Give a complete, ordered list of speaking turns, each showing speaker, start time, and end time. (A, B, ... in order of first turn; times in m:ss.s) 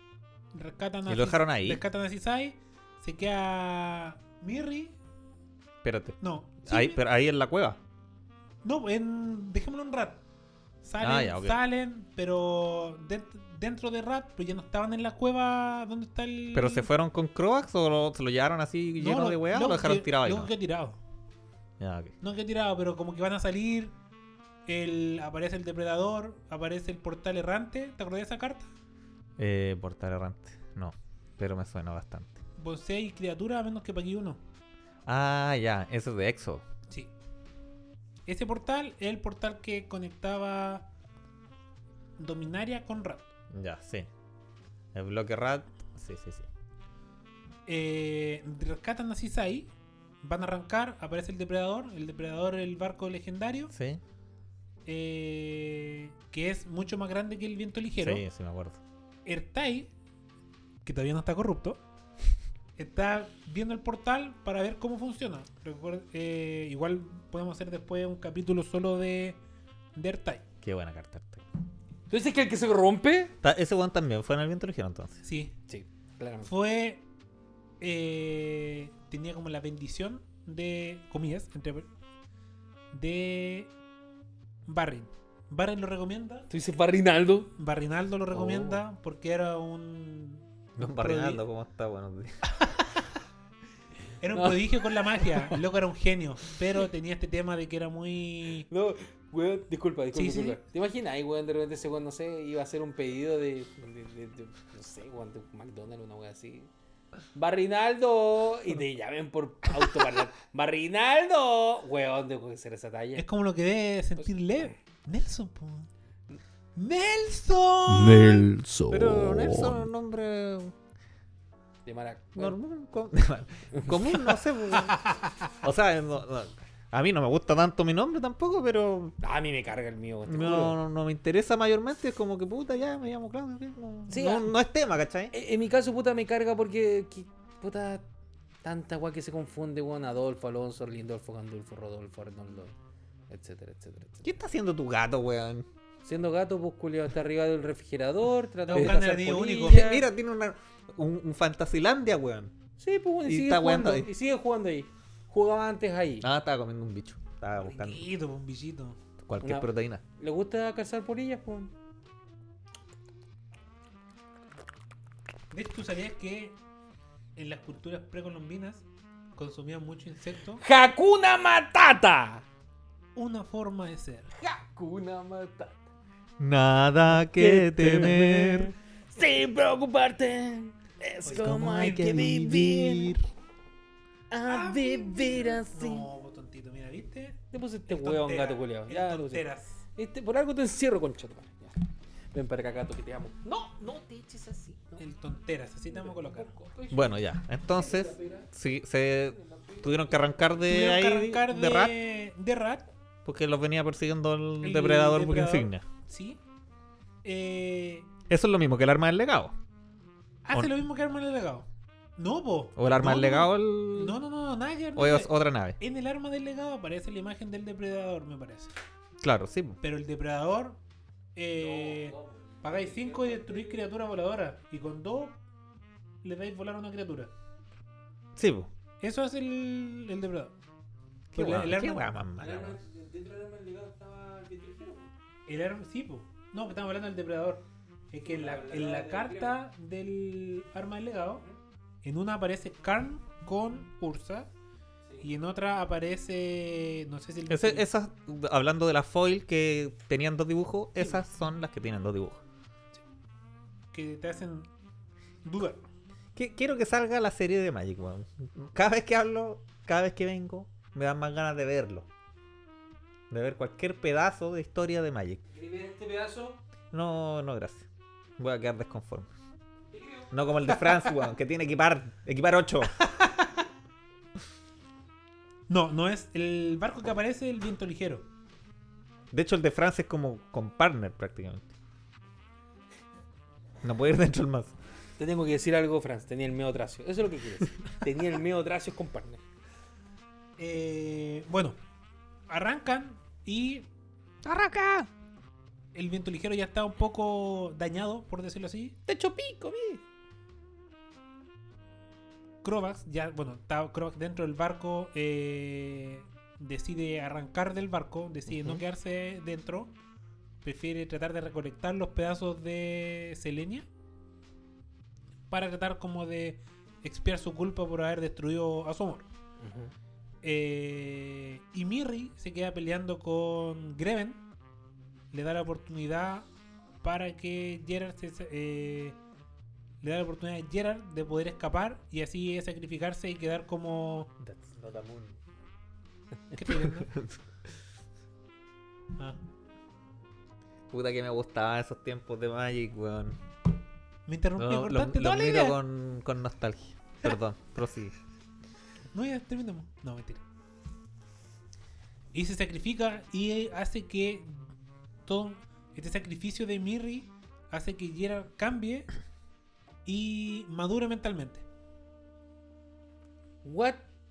0:00.5-0:05.0 A
0:01.1-0:01.8 B
0:05.8-0:07.8 B
0:06.2-0:07.0 A
0:08.6-0:10.2 A
0:10.8-0:16.9 A
0:11.0-0:11.6 B
0:16.5-0:20.5 B
0:19.0-0:21.0 A
0:21.8-0:22.1 B
0:22.2-0:24.0 A
0:24.7-0:28.7 A
0:29.4-0:32.4 B
0:32.6-0:34.4 A
0:35.1-0:36.6 B
0:38.3-0:40.9 A
0:42.2-0:43.3 A
0:43.5-0:44.1 B
0:44.9-0:46.5 B
0:47.7-0:49.7 A
0:50.2-0:53.7 A
0:53.7-0:54.0 B
0:54.9-0:58.2 A
0:58.0-0:58.8 B
0:59.3-0:59.9 A
1:00.8-1:01.8 A
1:02.8-1:09.4 A
1:10.0-1:10.4 A
1:10.6-1:11.4 B
1:12.1-1:13.4 C
1:13.4-1:15.2 B
1:15.2-1:15.6 A
1:15.7-1:16.5 C
1:16.5-1:17.0 A
1:17.8-1:21.9 A
1:22.9-1:23.7 A
1:24.6-1:26.5 A
1:26.5-1:27.5 C
1:27.6-1:31.4 A
1:28.3-1:28.8 C
1:30.8-1:32.3 B
1:34.2-1:38.7 A
1:34.3-1:35.6 C
1:38.7-1:46.7 C
1:40.1-1:40.6 A
1:47.4-1:53.3 C
1:53.2-1:55.9 A
1:54.2-1:54.7 C
1:56.8-1:58.5 A
1:57.9-1:59.8 C
1:58.9-2:00.8 B
2:01.8-2:02.6 C
2:02.4-2:05.0 B
2:04.9-2:05.2 A
2:05.6-2:09.2 B
2:09.2-2:10.8 C
2:10.3-2:15.3 B
2:14.1-2:14.5 C
2:15.3-2:18.1 C
2:18.6-2:22.8 C
2:23.3-2:24.3 C
2:24.2-2:25.6 B
2:26.0-2:30.0 C
2:28.7-2:29.9 A
2:29.6-2:32.5 B
2:32.8-2:36.3 C
2:33.2-2:34.1 B
2:36.2-2:38.0 B
2:37.6-2:39.0 A
2:39.2-2:40.0 B
2:39.4-2:41.7 C
2:45.5-2:46.6 A
2:47.4-2:48.8 A
2:49.4-2:50.6 A
2:50.6-2:52.4 C
2:53.1-2:54.3 A
2:54.4-2:55.8 C
2:56.4-2:58.7 B
2:57.1-3:03.1 C
3:01.3-3:03.1 A
3:01.3-3:03.2 B
3:04.3-3:06.1 C
3:04.5-3:09.8 A
3:07.5-3:11.8 C
3:12.3-3:15.0 C
3:15.0-3:16.5 A
3:15.9-3:18.5 C
3:16.9-3:22.0 B
3:19.3-3:20.6 C
3:20.7-3:22.9 A
3:23.2-3:25.8 B
3:24.6-3:26.4 A
3:27.2-3:28.1 A
3:28.3-3:29.6 B
3:30.4-3:38.7 A
3:32.8-3:34.2 B
3:35.0-3:35.8 B
3:39.2-3:39.8 B
3:39.8-3:40.8 A
3:41.4-3:45.4 A
3:41.6-3:43.8 C
3:46.2-3:47.3 A
3:48.4-3:48.7 B
3:49.0-3:50.5 A
3:51.3-3:52.1 A
3:51.3-3:52.8 B
3:52.4-3:55.1 C
3:55.5-4:01.4 A
3:58.2-3:59.6 C
4:02.0-4:04.5 A
4:05.2-4:07.9 A
4:07.5-4:12.4 B
4:13.9-4:14.7 A
4:15.4-4:15.9 A
4:16.4-4:22.1 B
4:23.3-4:25.4 B
4:25.5-4:26.6 C
4:26.9-4:27.9 B
4:28.4-4:29.3 B
4:29.9-4:30.3 C
4:30.3-4:33.0 B
4:33.0-4:33.5 A
4:35.7-4:38.3 A
4:39.3-4:41.7 B
4:43.8-4:44.8 B
4:45.2-4:49.4 C
4:50.6-4:51.8 A
4:52.5-4:53.9 A
4:54.4-4:55.1 B
4:55.9-4:59.0 A
4:59.1-5:00.0 C
5:02.6-5:10.0 A
5:08.5-5:08.8 C
5:10.6-5:13.9 A
5:15.5-5:19.3 A
5:19.6-5:19.9 C
5:20.4-5:24.4 A
5:25.3-5:26.5 A
5:27.0-5:29.2 A
5:30.0-5:34.3 A
5:34.4-5:35.4 B
5:36.5-5:37.1 A
5:37.0-5:37.4 B
5:40.9-5:43.4 B
5:44.3-5:45.8 A
5:44.6-5:48.1 B
5:49.1-5:50.4 A
5:52.3-5:54.7 A
5:55.3-5:59.1 A
6:00.0-6:01.6 A
6:03.6-6:04.1 C